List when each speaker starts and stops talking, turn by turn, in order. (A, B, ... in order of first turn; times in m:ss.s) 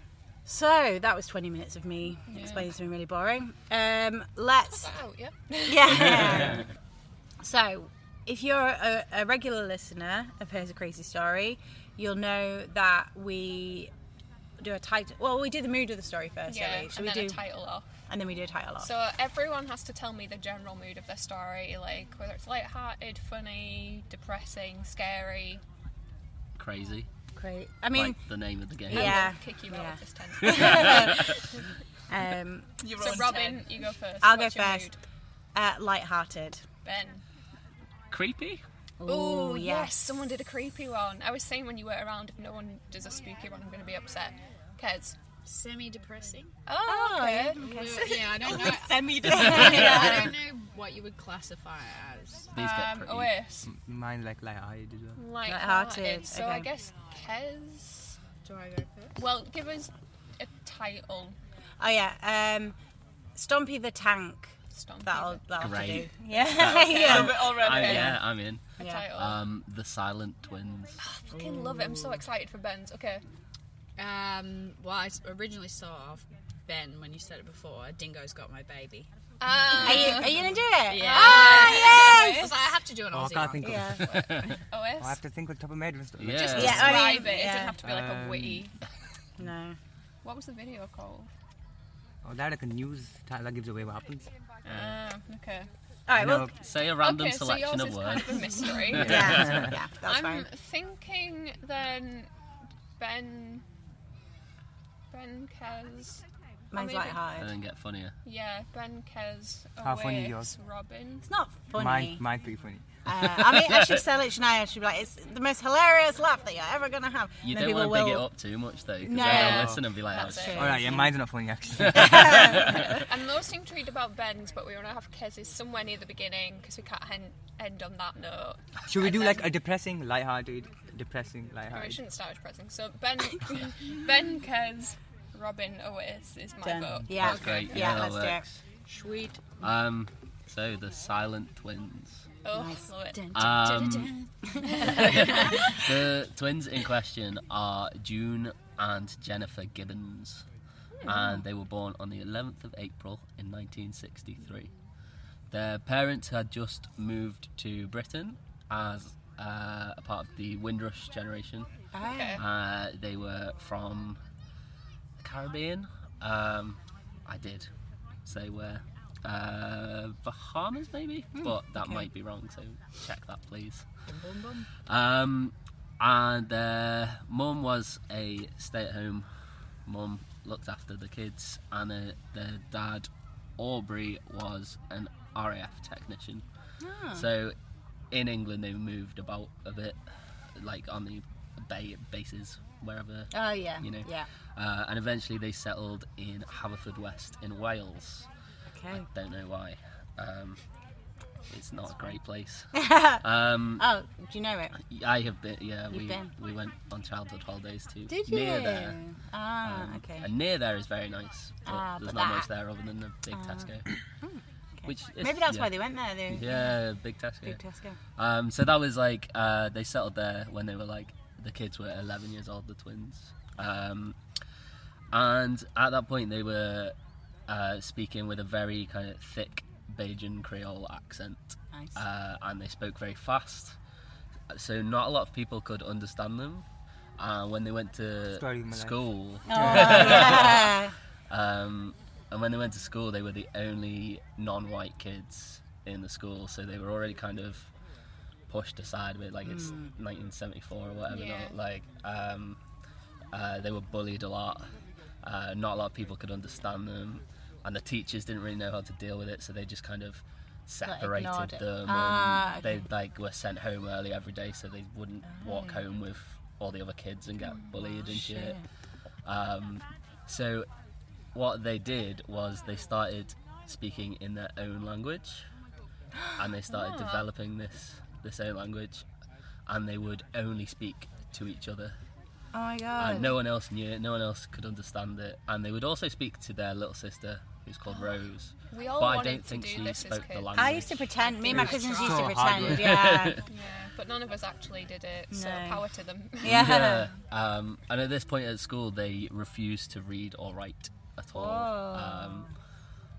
0:00.4-0:04.9 A
0:02.3-0:02.7 B
0:04.8-0:06.5 B
0:05.6-0:06.7 A
0:07.4-0:13.9 A
0:14.6-0:17.4 A
0:16.5-0:17.9 B
0:18.1-0:18.9 A
0:18.8-0:25.6 B
0:26.6-0:27.1 C
0:27.4-0:28.2 A
0:27.9-0:29.3 C
0:28.8-0:31.4 A
0:28.9-0:31.6 B
0:30.4-0:31.5 C
0:32.1-0:32.7 A
0:32.8-0:33.6 D
0:33.0-0:35.0 B
0:34.2-0:34.9 A
0:35.5-0:36.6 A
0:36.8-0:37.2 B
0:38.1-0:38.6 C
0:39.0-0:40.2 A
0:39.0-0:45.2 B
0:45.4-0:46.5 E
0:46.6-0:47.6 B
0:46.8-0:50.3 A
0:47.6-0:52.5 E
0:48.9-0:50.0 D
0:52.5-0:53.3 C
0:52.5-0:53.7 B
0:53.6-0:55.2 F
0:55.2-0:58.2 B
0:55.4-0:56.7 A
0:58.4-0:59.1 E
0:59.2-1:01.4 B
1:01.8-1:02.8 A
1:03.4-1:08.2 A
1:04.8-1:05.5 B
1:05.5-1:11.0 C
1:06.4-1:08.2 B
1:06.9-1:08.1 D
1:08.8-1:09.1 A
1:08.8-1:09.4 B
1:11.0-1:13.2 B
1:11.3-1:12.2 A
1:14.0-1:19.1 E
1:19.4-1:22.5 B
1:19.7-1:22.5 A
1:19.7-1:20.2 E
1:20.8-1:24.5 E
1:23.1-1:24.2 F
1:23.6-1:24.1 A
1:24.1-1:24.6 C
1:24.7-1:25.2 B
1:25.0-1:27.1 F
1:26.2-1:27.1 C
1:26.3-1:28.7 B
1:26.6-1:27.8 A
1:27.8-1:28.7 F
1:29.4-1:29.8 A
1:30.2-1:31.3 B
1:32.2-1:34.9 F
1:34.6-1:35.7 B
1:36.1-1:36.5 A
1:36.2-1:36.5 F
1:36.6-1:39.6 C
1:37.0-1:39.4 B
1:38.9-1:40.5 A
1:39.0-1:39.7 F
1:40.0-1:42.3 B
1:43.0-1:43.6 B
1:45.1-1:46.2 B
1:46.7-1:47.5 A
1:46.7-1:47.2 B
1:47.4-1:48.1 C
1:48.2-1:51.3 B
1:49.8-1:50.5 F
1:51.2-1:52.2 A
1:51.7-1:53.0 F
1:53.1-1:58.3 A
1:53.5-1:54.0 C
1:57.5-2:00.7 C
1:59.0-2:01.1 A
1:59.1-2:00.8 B
2:00.6-2:02.5 F
2:01.8-2:02.9 C
2:01.9-2:02.9 A
2:03.1-2:09.5 B
2:08.9-2:12.0 F
2:11.7-2:17.6 B
2:16.6-2:18.4 A
2:17.1-2:18.6 C
2:18.9-2:19.5 E
2:19.6-2:22.2 C
2:22.4-2:24.0 B
2:22.5-2:22.9 A
2:23.1-2:25.6 E
2:23.3-2:24.1 C
2:24.6-2:25.8 B
2:24.8-2:30.4 C
2:31.0-2:34.7 C
2:35.5-2:41.7 C
2:41.9-2:42.4 A
2:42.0-2:42.4 B
2:42.4-2:44.2 C
2:45.2-2:47.7 C
2:48.2-2:53.8 C
2:51.4-2:52.1 A
2:54.2-2:54.6 E
2:54.8-2:59.3 C
2:59.8-3:06.4 C
3:06.8-3:07.3 A
3:07.1-3:07.6 C
3:08.1-3:10.0 C
3:10.6-3:18.3 C
3:13.3-3:14.3 A
3:18.8-3:19.0 A
3:18.9-3:20.6 C
3:21.5-3:22.7 C
3:22.8-3:23.2 A
3:23.2-3:23.9 C
3:23.8-3:24.7 A
3:24.7-3:29.0 C
3:25.9-3:26.3 A
3:28.1-3:30.3 A
3:29.6-3:33.9 C
3:31.7-3:32.5 A
3:33.3-3:36.8 A
3:34.8-3:35.7 C
3:36.3-3:37.6 C
3:37.4-3:38.0 A
3:38.2-3:44.2 C
3:45.1-3:46.9 C
3:47.5-3:53.8 C
3:54.5-3:56.6 C
3:57.2-4:00.8 C
3:58.3-4:00.4 F
3:59.5-4:00.9 A
4:01.3-4:07.7 C
4:08.5-4:12.6 C
4:09.4-4:09.9 A
4:11.1-4:11.6 B
4:13.3-4:28.6 C
4:20.8-4:22.9 A
4:25.2-4:25.8 A
4:28.0-4:28.6 A
4:29.2-4:30.7 C
4:31.3-4:35.4 C
4:36.4-4:39.0 C
4:36.7-4:37.2 B
4:39.7-4:42.0 C
4:42.5-4:43.4 A
4:43.0-4:51.1 C
4:48.7-4:50.8 B
4:50.6-4:53.4 A
4:51.2-4:52.6 E
4:51.5-4:53.1 F
4:52.7-4:53.4 C
4:53.5-4:56.6 B
4:55.3-4:55.8 A
4:56.4-4:57.1 A
4:56.4-5:02.5 C
5:01.3-5:02.5 A